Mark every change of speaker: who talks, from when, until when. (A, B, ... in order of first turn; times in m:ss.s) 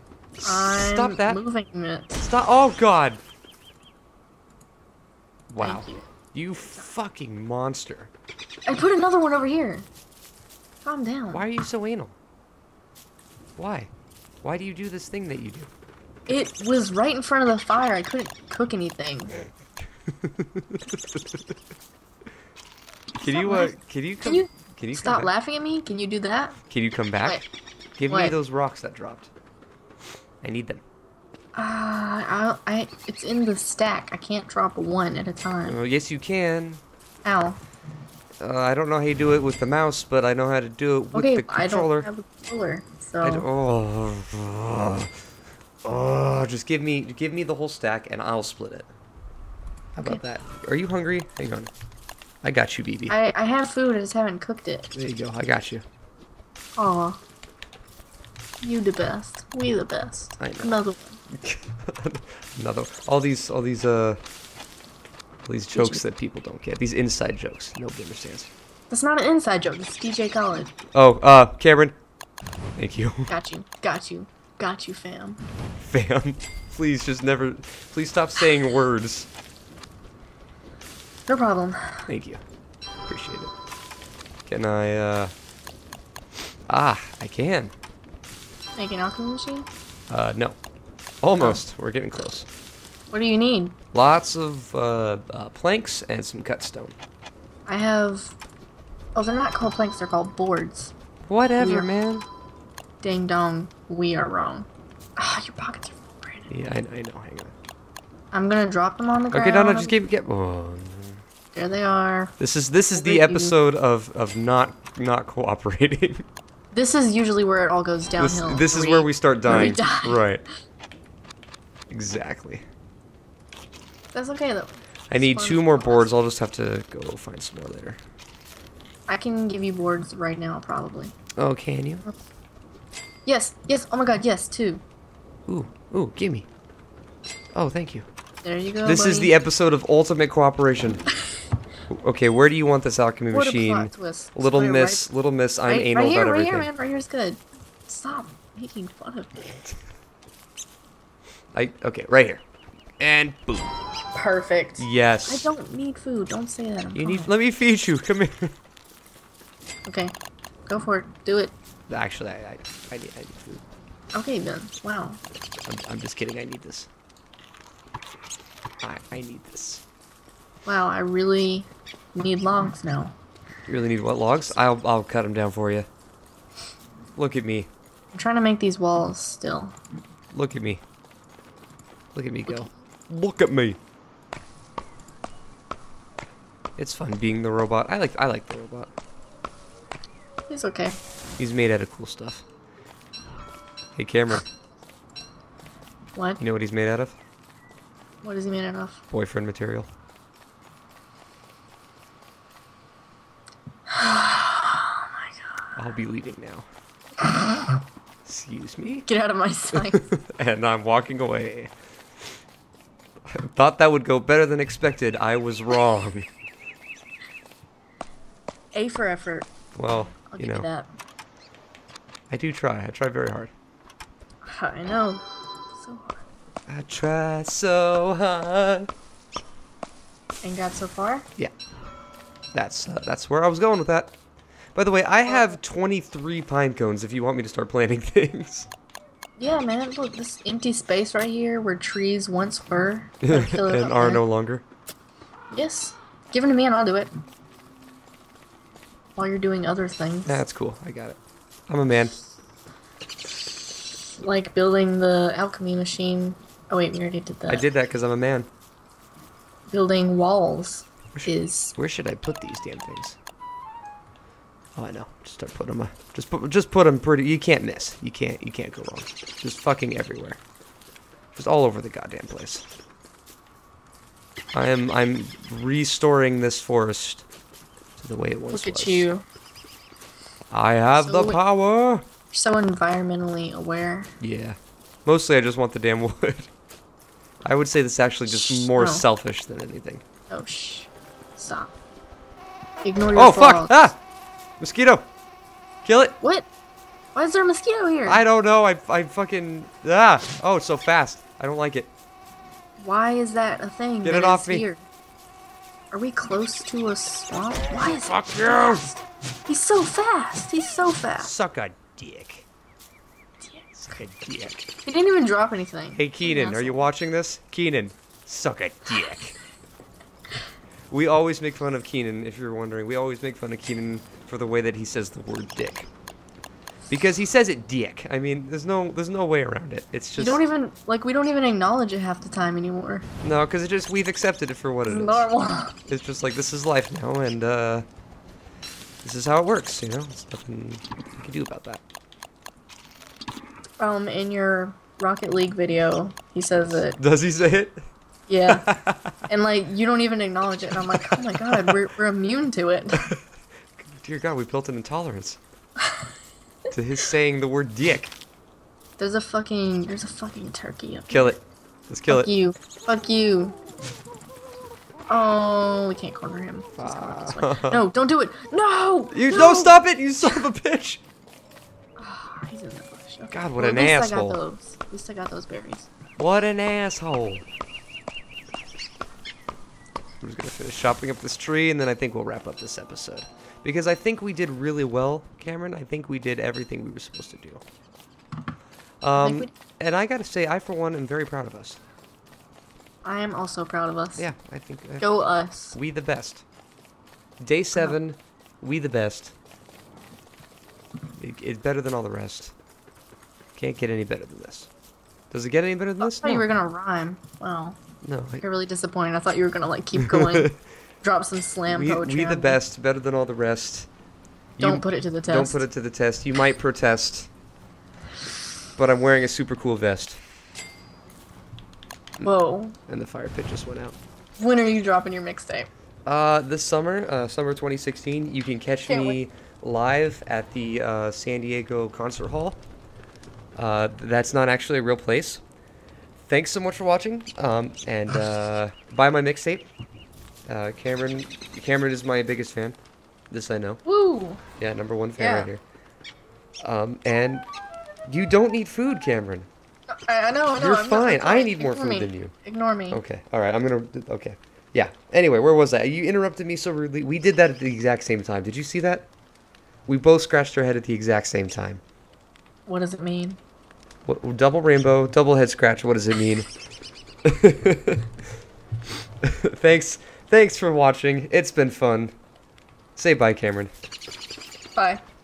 0:00.4-0:01.4 A
0:00.4-0:02.2 B
0:02.2-0:03.2 A
0:05.5-0:08.1 A
0:05.6-0:06.0 B
0:06.6-0:06.9 B
0:08.7-0:09.9 B
0:10.8-0:11.4 B
0:11.3-0:12.1 A
0:13.6-0:13.9 A
0:14.4-0:15.7 A
0:16.3-0:19.3 B
0:20.2-0:21.5 A
0:23.2-0:25.3 A
0:23.2-0:26.6 B
0:26.7-0:27.4 A
0:28.0-0:29.3 A
0:28.1-0:28.4 B
0:30.4-0:30.8 A
0:31.5-0:35.8 B
0:35.6-0:36.8 A
0:37.2-0:37.6 B
0:38.4-0:42.1 A
0:41.1-0:43.5 B
0:43.2-0:45.1 A
0:45.8-0:48.9 A
0:50.0-0:51.7 A
0:52.4-0:53.2 A
0:53.1-0:54.9 B
0:54.9-0:55.8 A
0:56.8-0:57.2 B
0:58.6-1:01.2 B
1:00.4-1:00.8 A
1:01.3-1:04.2 A
1:05.5-1:08.5 A
1:05.7-1:06.0 B
1:08.9-1:10.7 B
1:10.9-1:11.9 A
1:12.8-1:13.3 A
1:13.3-1:15.4 B
1:15.8-1:19.3 A
1:21.3-1:22.1 B
1:22.1-1:22.4 A
1:23.1-1:23.5 A
1:24.5-1:25.3 A
1:26.7-1:27.7 A
1:28.8-1:29.7 B
1:30.1-1:30.6 A
1:31.2-1:32.5 A
1:33.1-1:33.7 B
1:33.9-1:37.0 A
1:37.7-1:38.4 B
1:39.2-1:40.9 B
1:41.3-1:42.2 A
1:41.6-1:41.9 B
1:43.0-1:46.5 B
1:46.5-1:47.5 A
1:48.3-1:50.0 B
1:49.3-1:51.2 A
1:51.5-1:52.3 B
1:52.4-1:56.2 A
1:53.0-1:53.5 B
1:56.7-2:00.2 B
1:58.2-2:00.4 A
2:01.9-2:02.6 A
2:04.1-2:06.1 B
2:05.1-2:08.0 A
2:09.1-2:11.1 B
2:11.4-2:12.1 A
2:13.2-2:14.8 B
2:15.5-2:16.5 A
2:17.5-2:18.0 A
2:18.4-2:19.3 B
2:18.8-2:21.0 A
2:21.9-2:26.7 A
2:23.3-2:25.0 B
2:25.7-2:29.4 B
2:31.5-2:32.4 A
2:33.0-2:33.7 A
2:34.1-2:37.3 B
2:34.8-2:35.5 A
2:36.9-2:38.5 A
2:39.8-2:40.1 B
2:40.7-2:41.5 B
2:41.9-2:43.6 A
2:44.1-2:45.2 B
2:45.7-2:46.9 A
2:48.8-2:49.8 A
2:50.6-2:53.2 B
2:53.7-2:55.9 A
2:57.2-2:57.7 A
2:58.1-2:59.7 B
3:00.3-3:00.8 A
3:02.2-3:03.8 A
3:06.8-3:08.9 A
3:10.5-3:11.0 B
3:11.4-3:12.4 A
3:14.0-3:14.4 A
3:16.2-3:16.4 B
3:16.4-3:17.1 A
3:18.2-3:19.0 B
3:19.1-3:19.9 A
3:23.9-3:25.5 B
3:25.8-3:26.7 A
3:27.2-3:27.8 B
3:28.2-3:29.1 A
3:29.1-3:30.0 B
3:29.8-3:31.7 A
3:33.3-3:36.3 A
3:38.7-3:39.5 B
3:39.7-3:40.7 A
3:40.3-3:40.9 B
3:42.3-3:43.5 A
3:44.4-3:46.2 B
3:46.7-3:48.9 A
3:50.4-3:51.3 B
3:52.5-3:54.1 A
3:54.7-3:58.7 A
3:55.2-3:55.6 B
3:59.4-4:04.2 B
4:03.2-4:04.6 A
4:05.5-4:07.1 B
4:09.2-4:10.4 B
4:10.2-4:11.2 A
4:11.7-4:12.1 A
4:14.2-4:17.6 B
4:17.5-4:18.5 A
4:19.7-4:21.8 B
4:21.1-4:23.2 A
4:24.8-4:30.4 A
4:31.4-4:32.6 A
4:34.5-4:37.2 A
4:38.0-4:39.1 A
4:38.5-4:39.2 B
4:40.5-4:42.0 A
4:40.9-4:41.4 B
4:42.3-4:44.1 B
4:44.2-4:46.5 A
4:47.4-4:50.0 A
4:48.3-4:49.0 B
4:50.3-4:51.7 B
4:52.8-4:53.9 B
4:53.1-4:54.0 A
4:54.6-4:55.0 A
4:55.8-4:56.2 A
4:56.2-4:56.5 B
4:57.1-4:58.2 B
4:58.0-5:01.9 A
5:02.8-5:04.8 B
5:04.0-5:04.6 A
5:05.9-5:11.3 B
5:07.8-5:08.8 A
5:11.2-5:12.5 A
5:13.4-5:13.7 B
5:13.8-5:14.6 A
5:14.8-5:16.9 B
5:16.0-5:19.4 A
5:20.9-5:25.9 A
5:26.9-5:30.4 A
5:30.2-5:33.1 B
5:33.2-5:35.3 A
5:34.9-5:35.8 B
5:35.9-5:37.8 A
5:39.0-5:41.8 A
5:43.8-5:47.0 B
5:46.6-5:47.8 A
5:48.3-5:48.7 B
5:48.5-5:49.1 A
5:49.3-5:53.0 B
5:51.0-5:51.8 A
5:53.8-5:55.4 A
5:56.7-5:58.1 A
5:59.0-6:01.3 B
6:01.1-6:02.3 A
6:02.1-6:03.6 B
6:05.1-6:10.4 B
6:06.8-6:07.8 A
6:09.1-6:11.0 A
6:12.0-6:15.9 B
6:13.3-6:14.4 A
6:16.2-6:17.4 A
6:20.2-6:27.6 A
6:29.0-6:31.8 A
6:29.2-6:29.5 B
6:33.0-6:34.3 B
6:34.2-6:35.1 A
6:35.0-6:35.8 B
6:35.7-6:36.4 A
6:37.4-6:39.3 A
6:41.2-6:42.5 A
6:43.6-6:44.7 A
6:45.3-6:46.5 A
6:46.0-6:47.8 B
6:48.0-6:48.4 A
6:48.4-6:52.6 B
6:50.0-6:50.6 A
6:51.7-6:53.9 A
6:54.6-6:57.3 A
6:54.6-6:55.6 B
6:58.8-7:00.2 A
7:02.2-7:02.8 B
7:02.9-7:04.0 A
7:04.4-7:05.7 B
7:06.1-7:12.6 A
7:08.9-7:09.2 B
7:13.6-7:15.4 A
7:16.2-7:19.7 A
7:20.5-7:22.8 A
7:23.3-7:23.8 A
7:23.8-7:24.4 B
7:24.6-7:25.6 A
7:25.2-7:25.5 B
7:26.6-7:27.4 A
7:28.1-7:29.5 A
7:29.9-7:33.0 B
7:30.6-7:32.3 A
7:32.9-7:39.1 A
7:39.9-7:41.8 A
7:42.6-7:43.4 B
7:44.1-7:46.5 A
7:47.2-7:48.0 A
7:49.2-7:52.1 A
7:53.0-7:53.7 A
7:54.8-7:55.0 B